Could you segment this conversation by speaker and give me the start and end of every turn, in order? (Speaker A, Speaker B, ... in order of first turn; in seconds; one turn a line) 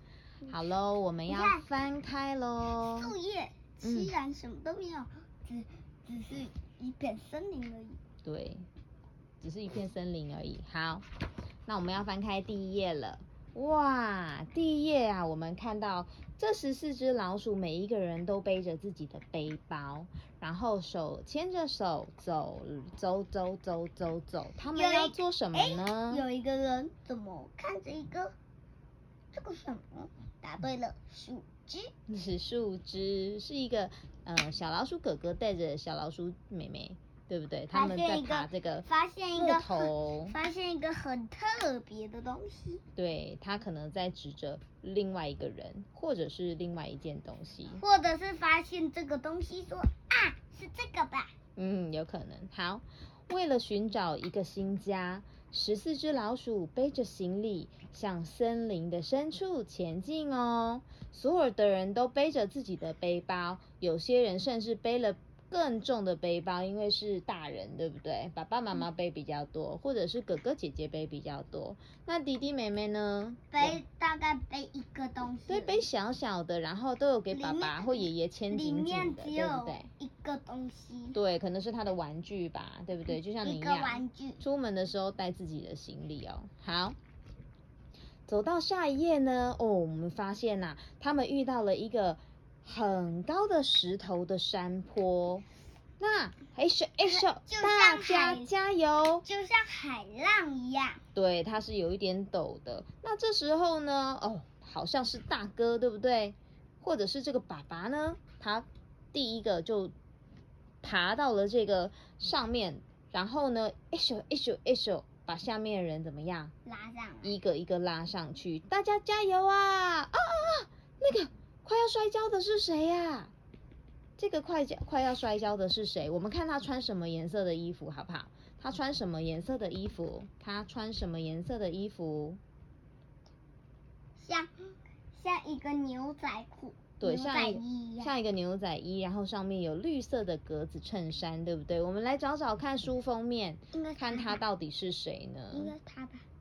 Speaker A: 0.5-3.1
Speaker B: 1.3-1.6
Speaker B: 2.9-8.0
Speaker A: 3.8-4.1
Speaker A: 8.2-8.7
Speaker A: 9.4-11.1
Speaker A: 11.7-26.2
Speaker B: 24.7-28.3
Speaker B: 29.3-31.9
Speaker A: 32.1-40.3
Speaker B: 37.7-42.8
Speaker A: 43.0-47.8
Speaker B: 47.8-51.3
Speaker A: 51.5-73.8
Speaker B: 73.5-75.8
Speaker A: 75.5-79.9
Speaker B: 77.3-81.2
Speaker A: 81.1-87.0
Speaker B: 83.4-84.4
Speaker A: 88.3-95.4
Speaker A: 96.0-99.2
Speaker B: 97.0-98.5
Speaker B: 99.2-101.0
Speaker A: 101.1-109.9
Speaker A: 110.8-116.5
Speaker B: 116.7-117.3
Speaker A: 117.2-123.3
Speaker A: 124.2-132.4
Speaker B: 134.2-134.5
Speaker B: 135.1-138.1
Speaker A: 137.0-145.7
Speaker B: 143.7-144.4
Speaker B: 145.5-146.2